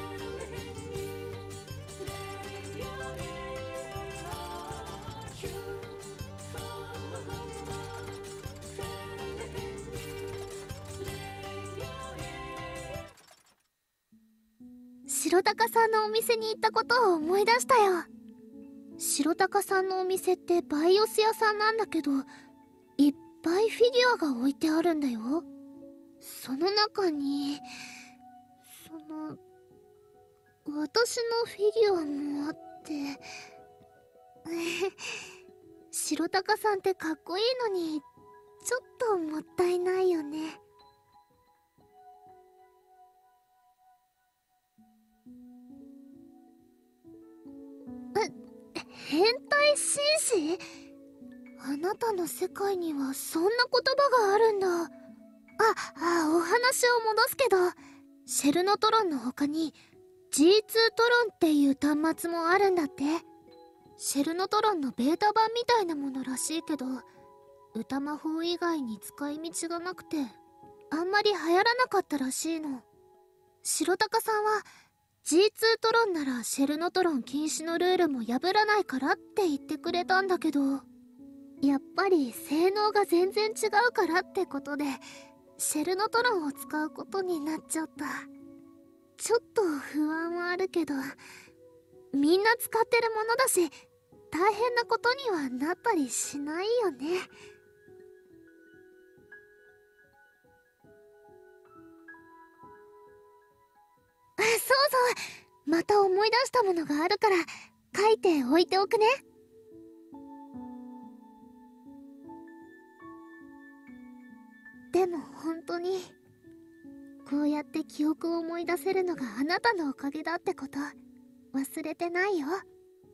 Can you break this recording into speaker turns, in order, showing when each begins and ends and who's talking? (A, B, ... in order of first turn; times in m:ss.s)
0:15.1-0:18.1 A
0:19.0-0:22.3 A
0:23.0-0:25.4 A
0:26.2-0:27.6 A
0:28.8-0:29.4 A
0:30.6-0:33.2 A
0:34.4-0:35.1 A
0:35.9-0:38.0 A
0:38.6-0:40.6 A
0:48.1-0:50.6 A
0:51.6-0:54.9 A
0:55.6-0:59.8 A
1:00.3-1:03.2 A
1:04.0-1:07.1 A
1:07.7-1:10.4 A
1:10.9-1:12.8 A
1:13.6-1:14.7 A
1:15.2-1:20.8 A
1:21.6-1:25.0 A
1:25.6-1:28.3 A
1:29.2-1:31.2 A
1:32.1-1:33.7 A
1:34.3-1:37.3 A
1:44.4-1:49.2 A
1:54.9-1:56.1 A
1:57.2-2:01.0 A
2:01.5-2:02.6 A